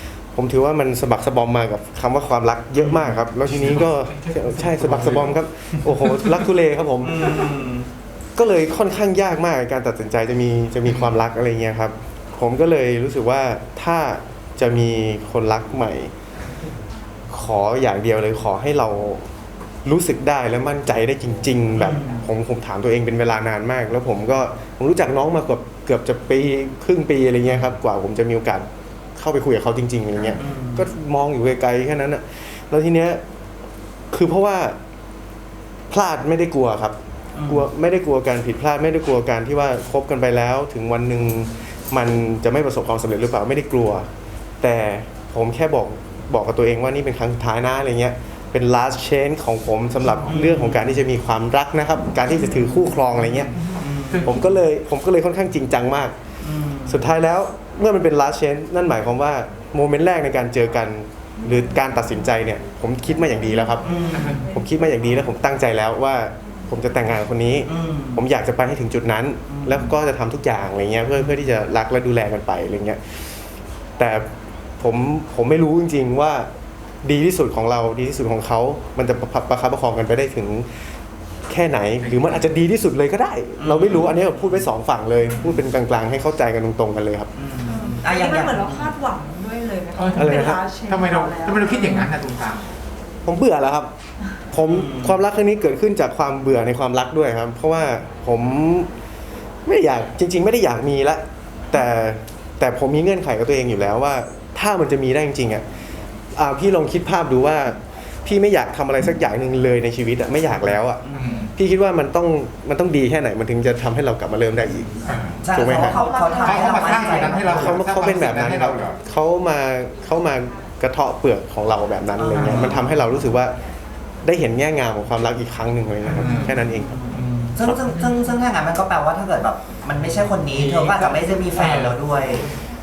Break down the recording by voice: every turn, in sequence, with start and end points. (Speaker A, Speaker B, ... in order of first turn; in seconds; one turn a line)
Speaker A: 0.3-7.4
Speaker B: 2.9-5.4
Speaker B: 6.1-6.4
Speaker C: 7.0-7.9
Speaker A: 8.4-16.1
Speaker A: 17.3-19.3
Speaker A: 19.9-33.2
Speaker C: 21.8-22.2
Speaker C: 30.4-30.9
Speaker A: 34.1-34.8
Speaker A: 35.9-44.1
Speaker C: 37.4-37.6
Speaker A: 44.6-53.6
Speaker C: 50.3-51.0
Speaker B: 53.6-54.5
Speaker C: 53.8-54.3
Speaker A: 54.2-56.1
Speaker C: 56.4-57.1
Speaker A: 56.9-63.9
Speaker C: 63.8-64.4
Speaker B: 64.0-64.5
Speaker A: 64.5-73.0
Speaker C: 67.7-68.2
Speaker C: 69.5-70.0
Speaker A: 74.0-76.5
Speaker A: 77.0-80.7
Speaker A: 81.5-87.3
Speaker B: 82.0-82.4
Speaker C: 83.6-84.7
Speaker C: 85.3-85.6
Speaker C: 87.4-88.9
Speaker D: 87.7-92.1
Speaker B: 90.0-92.6
Speaker A: 90.2-90.6
Speaker A: 93.3-93.9
Speaker A: 94.5-98.9
Speaker C: 94.6-95.2
Speaker A: 99.7-105.7
Speaker A: 106.4-114.9
Speaker C: 111.0-111.3
Speaker B: 111.1-111.5
Speaker B: 115.1-115.4
Speaker C: 115.4-117.8
Speaker A: 115.5-116.0
Speaker D: 115.7-117.7
Speaker B: 116.4-119.0
Speaker A: 117.5-123.5
Speaker C: 122.2-122.9
Speaker B: 122.3-122.8
Speaker A: 124.2-126.9
Speaker B: 126.1-126.6
Speaker C: 126.2-132.5
Speaker B: 127.1-128.0
Speaker B: 130.6-132.0